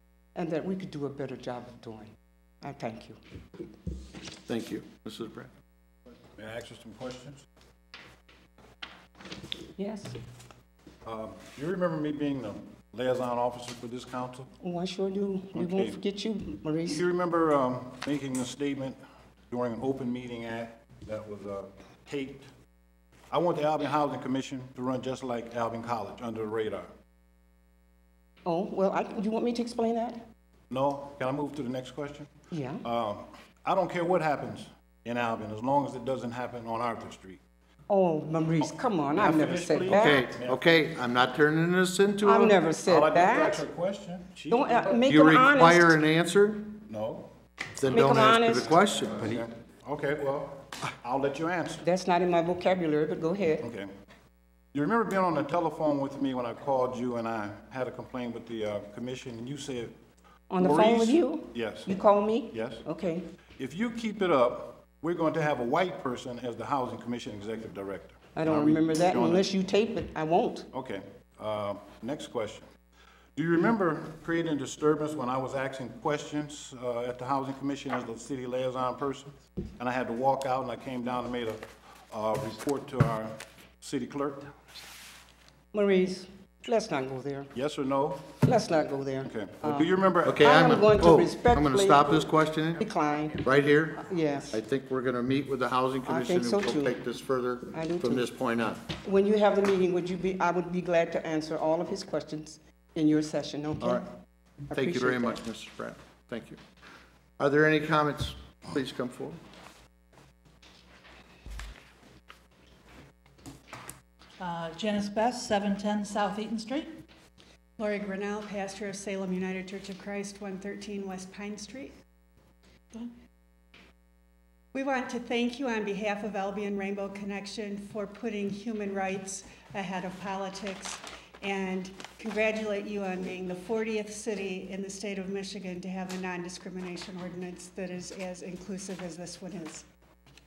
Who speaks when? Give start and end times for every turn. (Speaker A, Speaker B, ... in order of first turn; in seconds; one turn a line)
Speaker A: 0.3-3.2
Speaker B: 4.5-5.5
Speaker C: 6.4-7.4
Speaker A: 9.8-10.1
Speaker C: 11.0-14.5
Speaker A: 14.6-17.0
Speaker C: 15.5-16.0
Speaker C: 16.9-22.5
Speaker C: 23.3-26.9
Speaker A: 28.4-30.2
Speaker C: 30.7-32.3
Speaker A: 32.5-32.8
Speaker C: 32.8-37.4
Speaker A: 37.9-40.3
Speaker C: 38.6-40.6
Speaker B: 39.9-42.5
Speaker A: 42.2-43.6
Speaker C: 42.8-45.0
Speaker A: 44.5-46.0
Speaker B: 45.1-46.8
Speaker C: 46.9-47.3
Speaker B: 47.8-49.4
Speaker A: 47.9-48.7
Speaker C: 49.2-51.8
Speaker A: 51.8-53.6
Speaker C: 53.6-53.9
Speaker C: 54.7-59.9
Speaker A: 60.5-63.2
Speaker C: 60.6-62.8
Speaker C: 63.6-69.5
Speaker A: 68.3-70.7
Speaker C: 70.7-72.7
Speaker C: 73.3-84.5
Speaker A: 85.7-87.5
Speaker C: 87.5-88.3
Speaker A: 88.4-92.2
Speaker C: 89.2-90.4
Speaker B: 90.2-92.8
Speaker A: 92.8-93.4
Speaker B: 93.4-98.8
Speaker A: 94.0-94.5
Speaker A: 96.0-97.0
Speaker A: 97.7-98.3
Speaker A: 98.9-104.0
Speaker B: 103.8-104.0
Speaker A: 104.7-105.4
Speaker B: 104.7-106.6
Speaker B: 107.4-109.4
Speaker D: 114.4-117.0
Speaker E: 117.8-121.9
Speaker E: 124.7-139.8